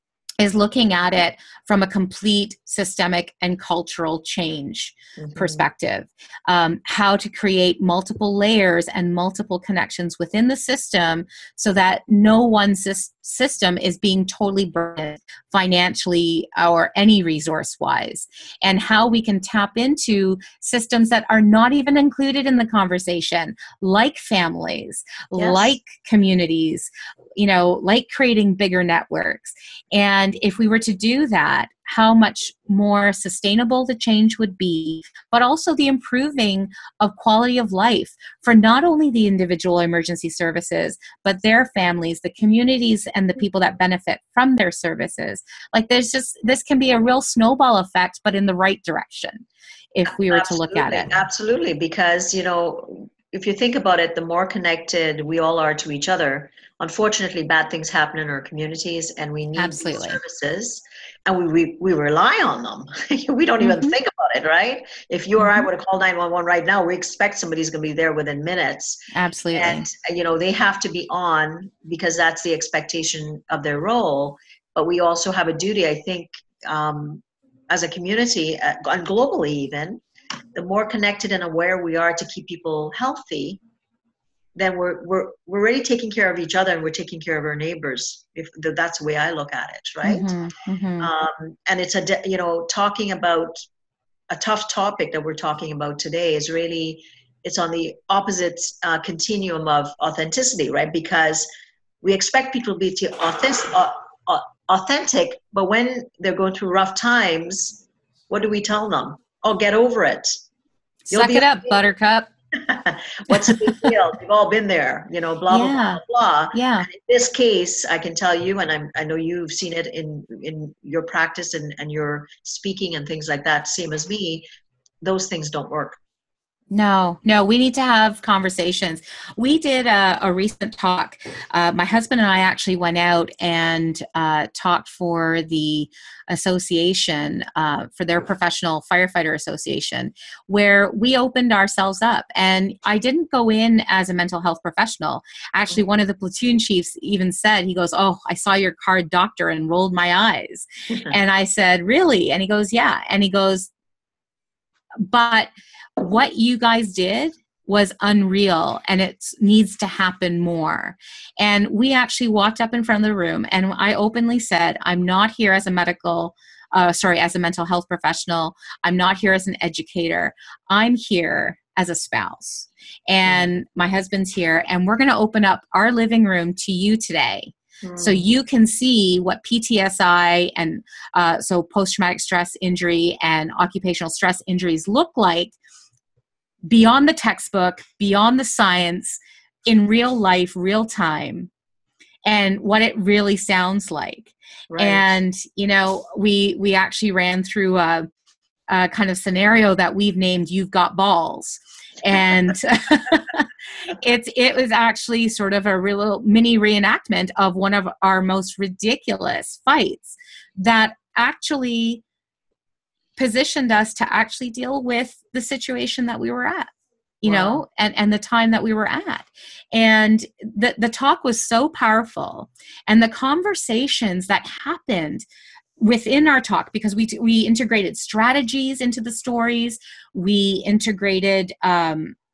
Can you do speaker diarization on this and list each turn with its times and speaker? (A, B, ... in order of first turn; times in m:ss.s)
0:00.4-0:51.1 A
0:05.2-0:05.7 B
0:25.4-0:25.8 B
0:50.1-1:09.0 B
0:59.6-1:00.2 A
1:03.6-1:03.9 A
1:05.4-1:05.7 A
1:09.1-1:09.9 A
1:09.5-1:20.0 B
1:20.6-1:23.6 B
1:24.6-1:30.3 B
1:30.0-1:31.1 A
1:31.0-1:33.6 B
1:34.3-1:41.5 B
1:42.0-1:50.4 B
1:51.1-1:52.3 A
1:51.1-1:51.8 B
1:52.5-2:04.4 B
1:55.5-1:56.0 A
1:56.5-1:56.9 A
2:05.0-2:06.0 B
2:06.7-2:33.7 A
2:35.0-3:05.6 A
2:57.8-2:58.2 B
3:06.7-3:11.5 A
3:12.2-3:18.1 A
3:14.7-3:15.1 B
3:18.7-3:32.0 A
3:33.2-3:36.7 A
3:37.2-3:45.2 A
3:37.2-3:37.6 B
3:45.8-3:52.2 A